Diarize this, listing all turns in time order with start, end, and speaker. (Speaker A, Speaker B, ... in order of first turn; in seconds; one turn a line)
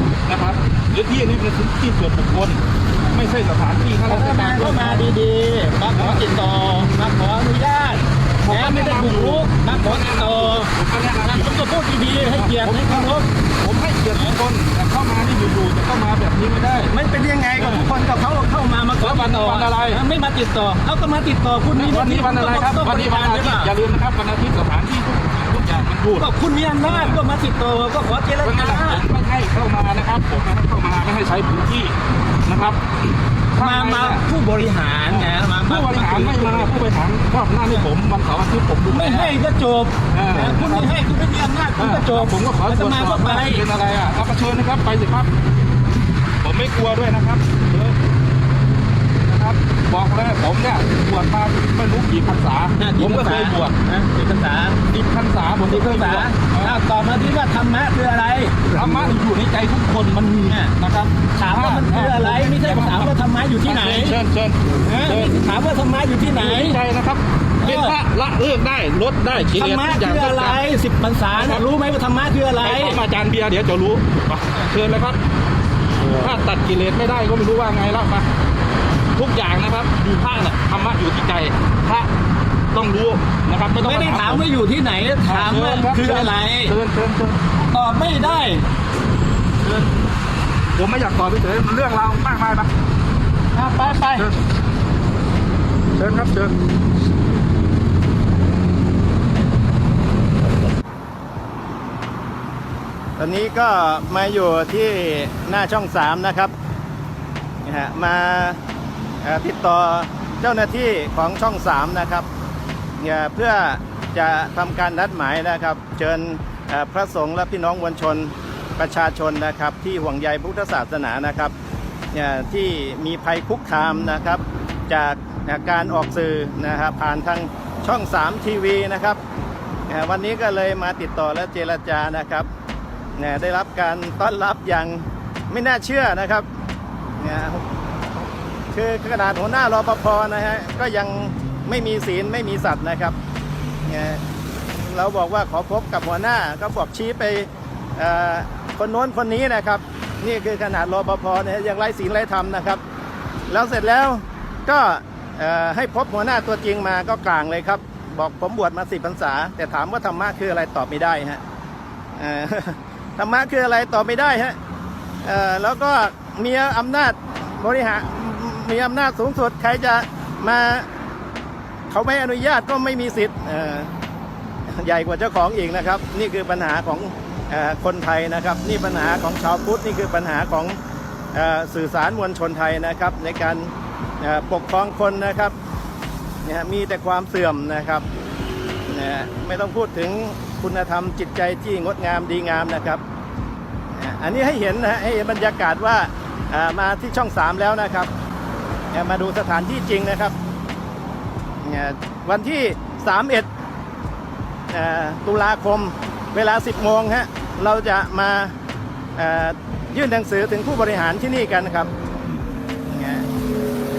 Speaker A: 0.2-5.1
Speaker B: 4.1-8.0
Speaker C: 4.8-5.2
Speaker A: 5.9-6.6
Speaker C: 7.1-8.0
Speaker A: 8.4-16.9
Speaker B: 8.5-10.7
Speaker B: 11.3-13.1
Speaker C: 12.1-13.2
Speaker C: 16.9-18.8
Speaker A: 17.6-17.9
Speaker B: 18.7-23.6
Speaker A: 19.0-20.0
Speaker A: 21.7-26.3
Speaker C: 23.2-23.6
Speaker B: 26.4-29.0
Speaker A: 26.8-27.2
Speaker C: 27.1-27.3
Speaker A: 28.4-31.9
Speaker A: 32.5-34.2
Speaker B: 33.6-36.7
Speaker A: 35.1-39.4
Speaker B: 38.9-43.6
Speaker A: 40.1-41.0
Speaker A: 41.8-45.3
Speaker A: 46.4-48.0
Speaker A: 49.2-53.8
Speaker B: 52.8-54.8
Speaker A: 54.9-56.8
Speaker B: 55.7-58.9
Speaker A: 58.7-65.3
Speaker B: 61.3-64.2
Speaker B: 64.8-66.8
Speaker A: 66.3-70.6
Speaker B: 67.6-67.9
Speaker B: 69.5-72.9
Speaker A: 71.3-71.6
Speaker A: 72.6-75.2
Speaker C: 72.6-72.9
Speaker A: 76.0-78.3
Speaker A: 79.2-82.1
Speaker A: 82.7-84.5
Speaker B: 83.8-86.7
Speaker A: 85.2-87.4
Speaker B: 87.7-88.6
Speaker A: 90.7-92.7
Speaker B: 93.5-94.2
Speaker A: 96.0-96.5
Speaker C: 103.2-106.5
Speaker C: 107.6-108.6
Speaker C: 109.2-112.3
Speaker C: 113.0-121.5
Speaker C: 122.1-129.2
Speaker C: 129.9-132.5
Speaker C: 133.2-136.5
Speaker C: 137.2-137.6
Speaker C: 138.7-143.2
Speaker C: 143.8-144.2
Speaker C: 144.8-152.8
Speaker C: 153.5-161.4
Speaker C: 162.2-164.6
Speaker C: 165.2-170.9
Speaker C: 171.9-173.9
Speaker C: 174.7-180.8
Speaker C: 181.3-185.5
Speaker C: 186.4-188.0
Speaker C: 188.9-193.0
Speaker C: 193.9-198.1
Speaker C: 198.9-200.3
Speaker C: 201.6-203.5
Speaker C: 204.7-208.5
Speaker C: 209.2-211.9
Speaker C: 212.9-213.2